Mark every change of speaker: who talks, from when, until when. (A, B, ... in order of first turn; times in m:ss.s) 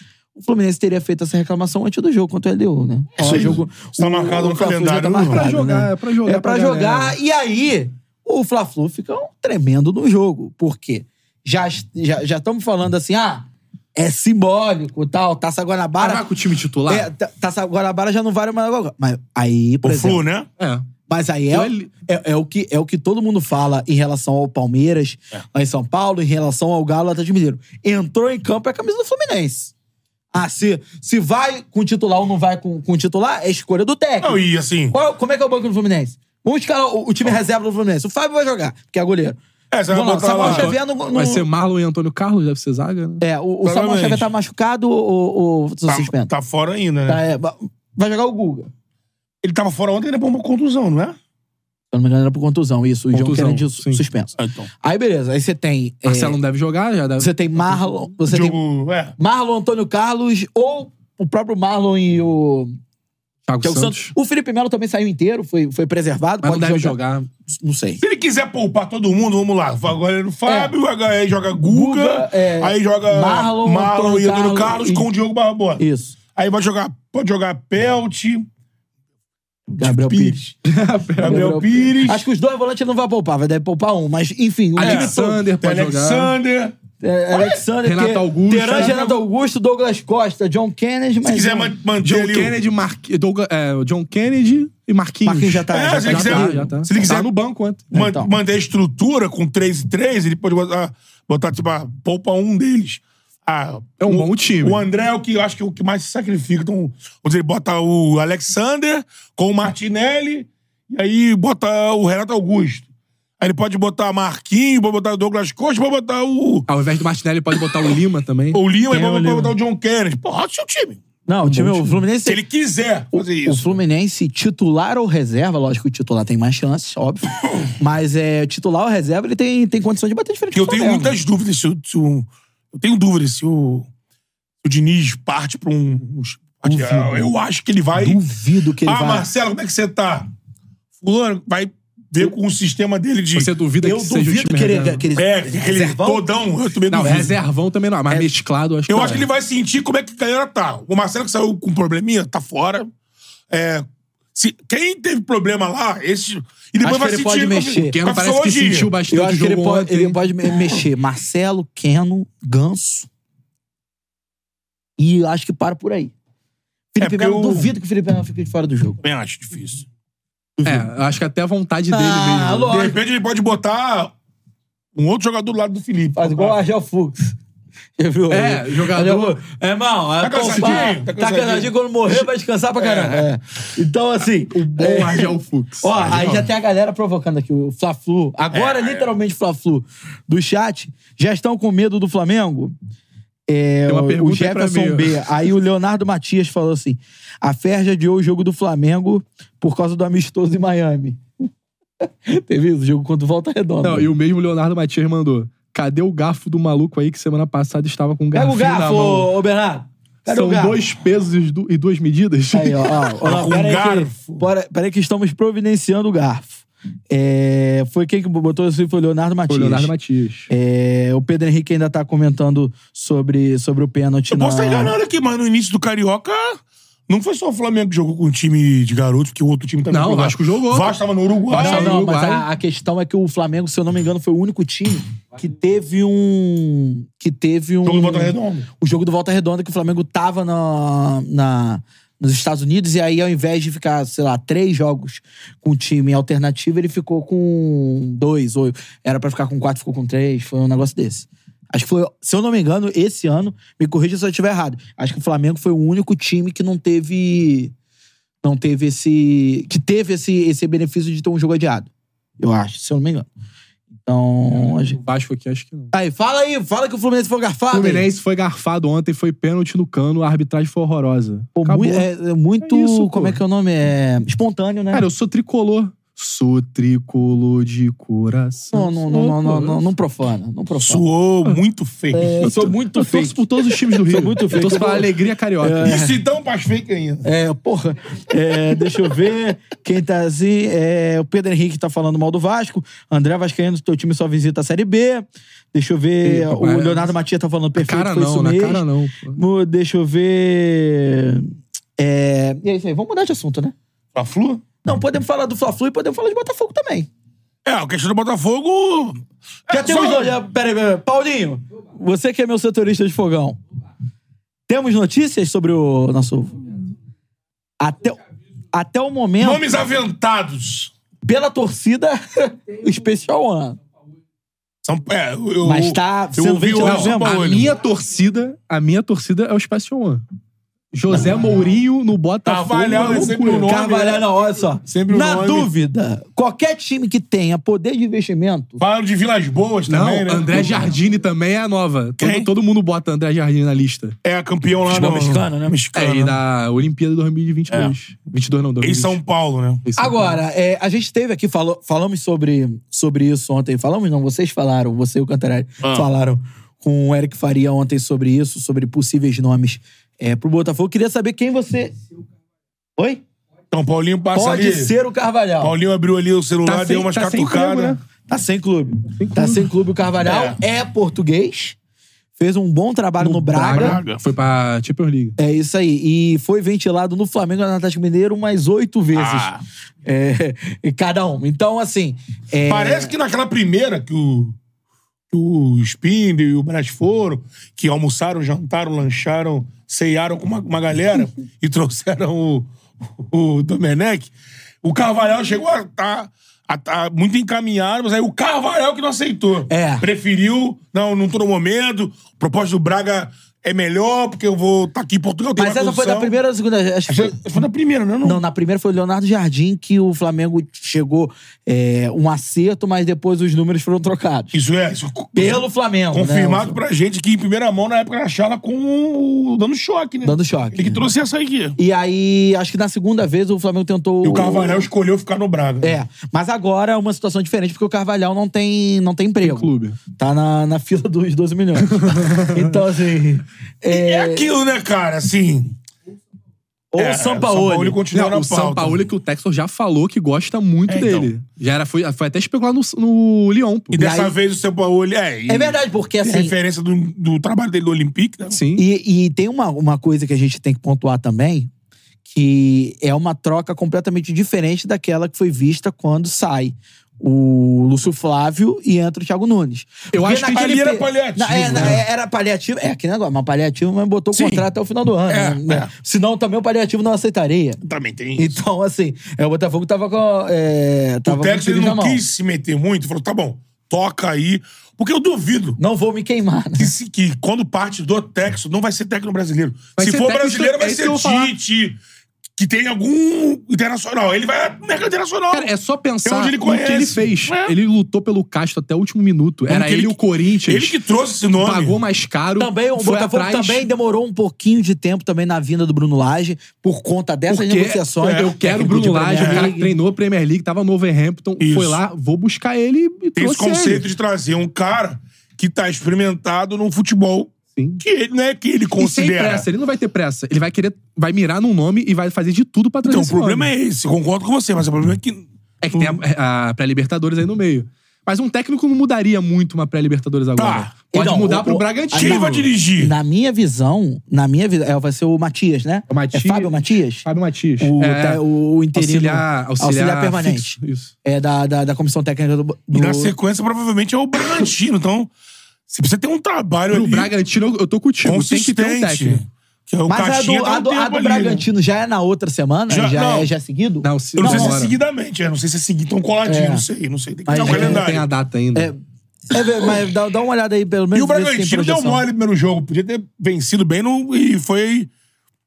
0:00.4-0:16.3 A
0:03.2-0:05.5 B
0:05.2-0:07.2 C
0:16.0-0:17.1 C
0:16.9-0:20.2 A
0:19.8-0:20.5 B
0:20.6-0:20.9 C
0:21.1-0:29.7 A
0:21.5-0:21.9 C
0:30.3-0:34.4 A
0:34.2-0:35.0 B
0:34.9-0:39.4 A
0:39.7-0:40.8 B
0:39.9-0:41.5 A
0:40.4-0:43.2 C
0:43.2-0:46.3 A
0:43.6-0:44.3 B
0:45.9-0:47.2 B
0:47.1-0:48.7 A
0:49.4-0:51.2 B
0:51.9-0:56.4 A
0:53.1-0:54.0 C
0:54.4-0:54.7 B
0:56.1-0:57.9 C
0:57.2-0:58.6 A
0:58.3-0:59.2 B
0:59.2-1:02.8 A
1:03.5-1:04.1 C
1:03.6-1:08.0 A
1:06.4-1:07.3 C
1:08.0-1:15.8 B
1:10.5-1:10.7 A
1:11.6-1:15.1 A
1:15.8-1:16.2 A
1:16.4-1:18.5 B
1:19.7-1:20.6 B
1:19.8-1:20.4 A
1:20.6-1:21.6 C
1:21.2-1:22.3 B
1:21.2-1:25.2 A
1:24.8-1:26.3 C
1:24.8-1:26.8 B
1:27.0-1:31.7 A
1:27.3-1:27.6 B
1:27.8-1:29.2 C
1:31.2-1:32.6 B
1:32.0-1:37.9 C
1:35.2-1:36.8 A
1:35.7-1:37.3 B
1:37.9-1:52.9 B
1:37.9-1:38.3 A
1:44.0-1:44.8 C
1:53.4-1:56.7 B
1:56.7-1:58.6 C
1:58.5-2:01.0 B
1:58.9-1:59.6 A
2:01.3-2:02.4 A
2:01.4-2:02.0 C
2:02.2-2:03.8 B
2:03.1-2:11.2 A
2:10.5-2:13.9 B
2:14.6-2:18.2 B
2:16.6-2:17.3 A
2:18.0-2:19.3 A
2:18.8-2:20.3 B
2:21.0-2:23.5 B
2:23.4-2:25.0 C
2:23.8-2:26.3 A
2:25.2-2:27.4 B
2:26.9-2:29.3 C
2:28.9-2:32.9 B
2:33.5-2:39.0 B
2:36.8-2:38.0 A
2:37.9-2:40.2 C
2:39.1-2:43.1 A
2:45.0-2:46.1 A
2:46.9-2:49.0 A
2:47.0-2:47.7 B
2:49.0-2:49.9 B
2:50.6-2:50.9 A
2:50.6-2:52.7 C
2:51.9-2:53.0 A
2:52.7-2:54.1 B
2:55.0-2:56.6 B
2:56.2-2:57.3 A
2:58.0-3:12.7 A
2:58.3-2:59.4 C
3:00.2-3:01.7 B
3:00.5-3:00.9 C
3:02.8-3:03.3 B
3:04.5-3:06.2 C
3:06.0-3:06.5 B
3:08.5-3:09.1 B
3:13.5-3:21.2 A
3:13.9-3:15.3 C
3:22.3-3:24.1 A
3:23.8-3:29.3 C
3:28.3-3:30.8 A
3:30.3-3:33.1 C
3:32.5-3:39.9 A
3:33.2-3:34.4 B
3:39.5-3:40.5 C
3:40.5-3:45.0 A
3:44.3-3:52.0 B
3:49.9-3:50.9 C
3:51.5-3:52.5 C
3:51.5-4:17.7 A
3:57.8-3:58.7 B
4:18.4-4:23.3 A
4:24.0-4:25.0 A
4:25.0-4:25.9 C
4:25.9-4:28.1 A
4:27.7-4:32.1 C
4:31.6-4:35.0 A
4:32.6-4:33.4 C
4:34.9-4:39.8 C
4:38.7-4:41.0 A
4:40.8-4:42.6 B
4:42.1-4:43.4 A
4:42.4-4:46.0 C
4:44.0-4:46.2 A
4:45.8-4:47.3 B
4:47.2-5:03.8 A
4:56.2-4:57.2 C
4:57.8-4:59.4 C
5:04.2-5:04.6 B
5:04.8-5:07.1 A
5:07.6-5:10.4 B
5:09.7-5:13.6 A
5:14.7-5:16.8 A
5:17.8-5:18.2 A
5:18.7-5:19.7 A
5:19.4-5:20.9 B
5:21.2-5:23.8 A
5:24.8-5:27.7 B
5:25.6-5:27.5 A
5:26.8-5:30.2 C
5:30.9-5:33.7 C
5:32.4-5:34.2 B
5:33.1-5:38.8 A
5:34.8-5:35.7 B
5:38.8-5:40.9 B
5:39.9-5:44.2 C
5:42.2-5:42.5 B
5:44.2-5:46.4 B
5:44.9-5:45.7 A
5:46.0-5:49.2 C
5:47.7-5:48.0 B
5:48.8-5:49.8 B
5:49.8-5:50.4 C
5:50.0-6:02.0 A
5:55.8-5:56.1 B
6:03.0-6:03.2 A
6:03.7-6:04.9 B
6:04.3-6:05.7 A
6:05.6-6:08.0 B
6:06.6-6:08.0 C
6:08.3-6:11.8 A
6:09.2-6:09.7 C
6:10.2-6:10.6 B
6:12.4-6:14.0 A
6:13.2-6:15.4 C
6:13.7-6:14.2 B
6:15.4-6:19.5 A
6:19.1-6:19.6 B
6:20.0-6:23.1 A
6:22.7-6:24.6 B
6:25.3-6:34.3 B
6:34.8-6:46.4 B
6:39.7-6:40.1 A
6:45.6-6:47.5 A
6:47.1-6:48.4 B
6:48.2-6:54.5 A
6:54.5-7:01.8 B
6:55.4-6:56.8 A
7:00.2-7:01.0 A
7:01.8-7:04.9 A
7:04.2-7:06.0 B
7:05.8-7:14.5 A
7:09.4-7:10.0 C
7:11.8-7:12.8 C
7:13.9-7:15.8 B
7:16.9-7:18.0 A
7:17.0-7:19.1 B
7:18.1-7:24.0 C
7:20.9-7:21.3 B
7:23.9-7:28.6 B
7:24.0-7:24.4 A
7:25.5-7:26.6 A
7:28.5-7:28.8 C
7:28.8-7:31.7 A
7:32.2-7:47.8 A
7:40.1-7:40.8 C
7:40.4-7:42.0 B
7:41.5-7:42.0 C
7:44.3-7:44.6 B
7:45.3-7:45.9 B
7:47.8-7:48.6 B
7:48.4-7:52.2 A
7:51.2-7:55.8 B
7:55.8-7:56.9 A
7:56.8-8:02.0 B
8:00.0-8:01.5 C
8:02.6-8:05.7 B
8:05.5-8:11.0 C
8:06.2-8:07.8 B
8:09.7-8:12.0 B
8:11.6-8:13.9 C
8:12.6-8:20.0 A
8:17.5-8:24.1 C
8:19.4-8:19.7 B
8:21.6-8:22.0 B
8:23.4-8:29.7 B
8:27.7-8:28.0 C
8:29.0-8:33.7 C
8:33.0-8:36.2 B
8:35.8-8:42.7 C
8:40.6-8:40.9 B
8:41.1-8:47.3 A
8:42.1-8:43.2 B
8:46.1-8:48.4 C
8:47.8-8:53.3 A
8:48.9-8:51.1 C
8:52.9-8:55.3 B
8:55.9-8:57.3 B
8:56.9-8:59.4 C
8:58.2-9:01.7 B
9:00.1-9:04.8 A
9:02.9-9:03.5 B
9:04.0-9:04.9 C
9:04.4-9:08.3 B
9:06.4-9:06.8 A
9:07.4-9:08.1 A
9:07.6-9:08.9 C
9:09.5-9:12.2 A
9:11.1-9:15.1 B